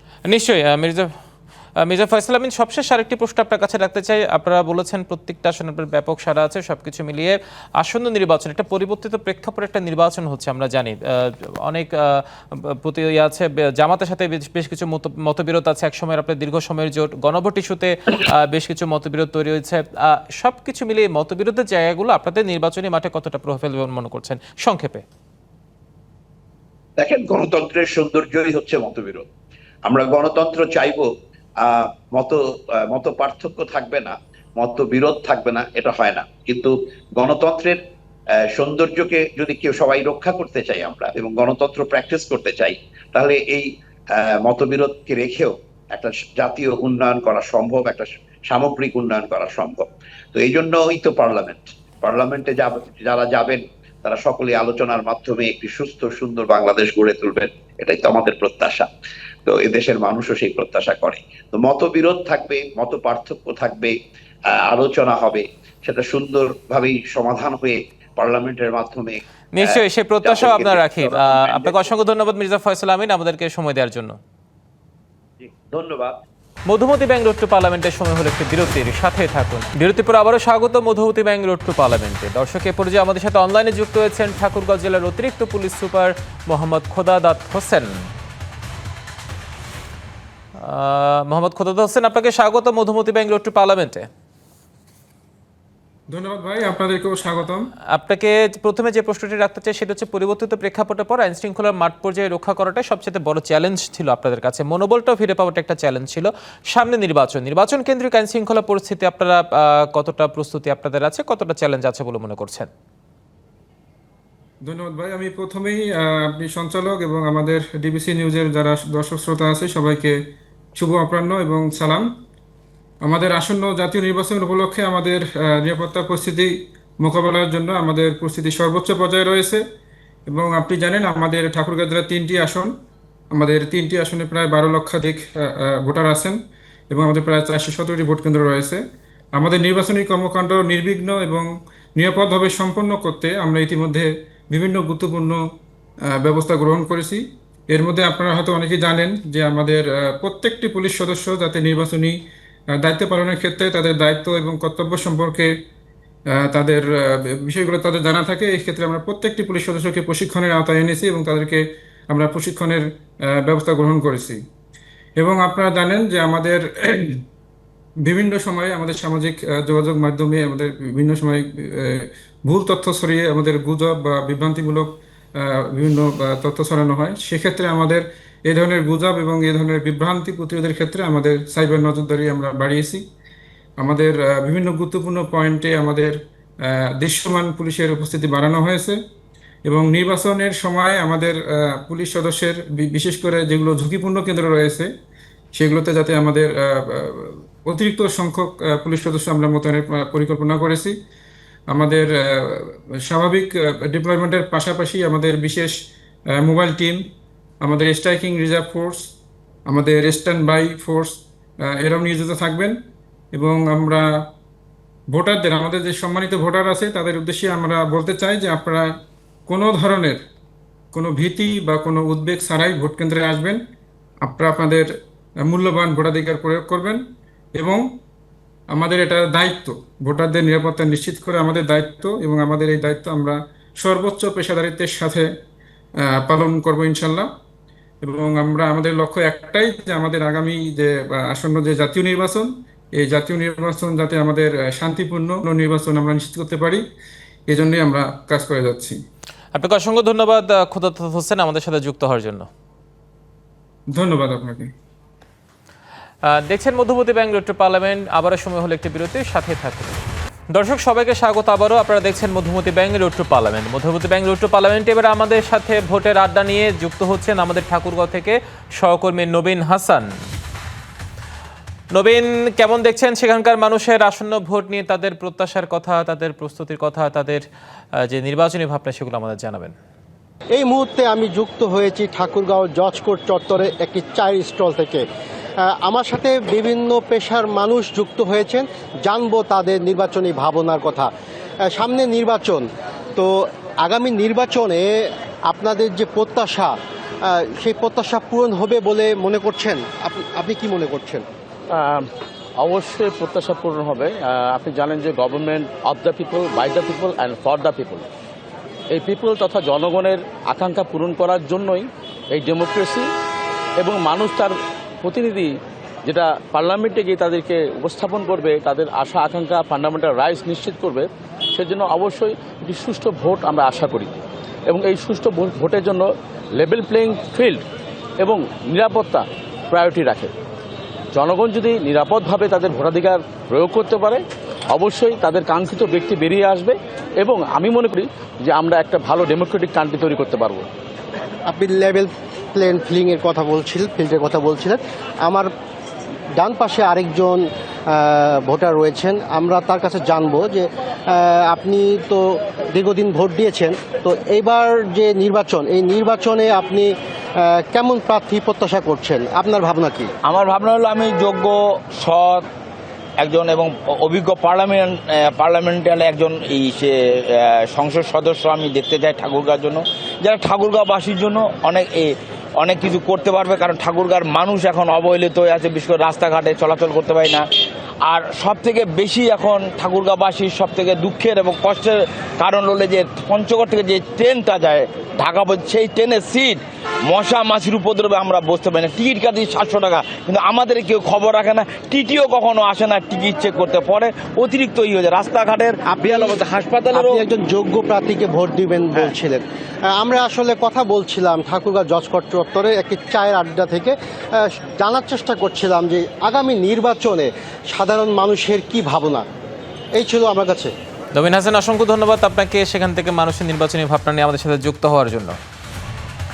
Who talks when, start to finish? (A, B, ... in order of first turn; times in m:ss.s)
0:00.3-0:01.1 A
0:01.8-0:25.0 A
0:27.0-0:29.3 B
0:29.9-0:31.1 B
0:31.6-0:32.4 B
0:32.9-0:37.8 B
0:38.5-0:58.9 B
0:59.5-1:04.0 B
1:04.6-1:11.9 B
1:09.6-1:14.2 A
1:15.4-1:16.2 B
1:16.7-1:27.9 A
1:30.6-1:34.1 A
1:36.1-1:37.6 C
1:37.9-1:52.7 A
1:54.6-2:00.2 C
2:00.8-2:02.1 C
2:03.0-2:09.6 C
2:10.3-2:12.7 C
2:13.3-2:16.4 C
2:16.9-2:18.8 C
2:19.4-2:25.4 C
2:26.1-2:32.2 C
2:32.7-2:35.5 C
2:36.3-2:44.4 C
2:45.2-2:47.2 C
2:48.0-3:03.1 C
3:03.8-3:09.0 C
3:09.7-3:14.9 C
3:15.5-3:21.0 C
3:21.7-3:25.8 C
3:26.3-3:27.1 C
3:27.6-3:29.1 C
3:29.7-3:32.8 C
3:33.3-3:34.2 C
3:35.1-3:38.9 C
3:39.5-3:40.2 C
3:40.9-3:43.6 C
3:44.2-3:44.9 C
3:45.5-3:47.0 C
3:47.6-3:47.9 C
3:48.7-3:55.3 C
3:56.0-3:57.3 C
3:58.0-4:06.9 C
4:07.5-4:09.0 C
4:09.5-4:12.5 A
4:13.9-4:14.7 C
4:16.3-4:20.0 A
4:20.5-4:30.1 A
4:31.9-4:37.4 A
4:38.0-4:39.8 A
4:40.6-4:45.0 D
4:45.6-4:51.1 D
4:51.7-5:01.2 D
5:01.7-5:02.1 E
5:02.6-5:08.1 E
5:08.9-5:13.1 E
5:13.8-5:15.5 E
5:16.1-5:27.6 E
5:28.2-5:30.3 E
5:31.2-5:40.6 E
5:41.5-5:45.5 D
5:46.4-6:00.1 D
6:00.2-6:02.5 F
6:03.2-6:12.1 F
6:12.6-6:17.4 F
6:18.1-6:37.2 F
6:35.9-6:36.4 D
6:36.9-6:39.4 D
6:40.0-6:49.3 D
6:50.0-6:50.7 D
6:51.1-6:55.4 A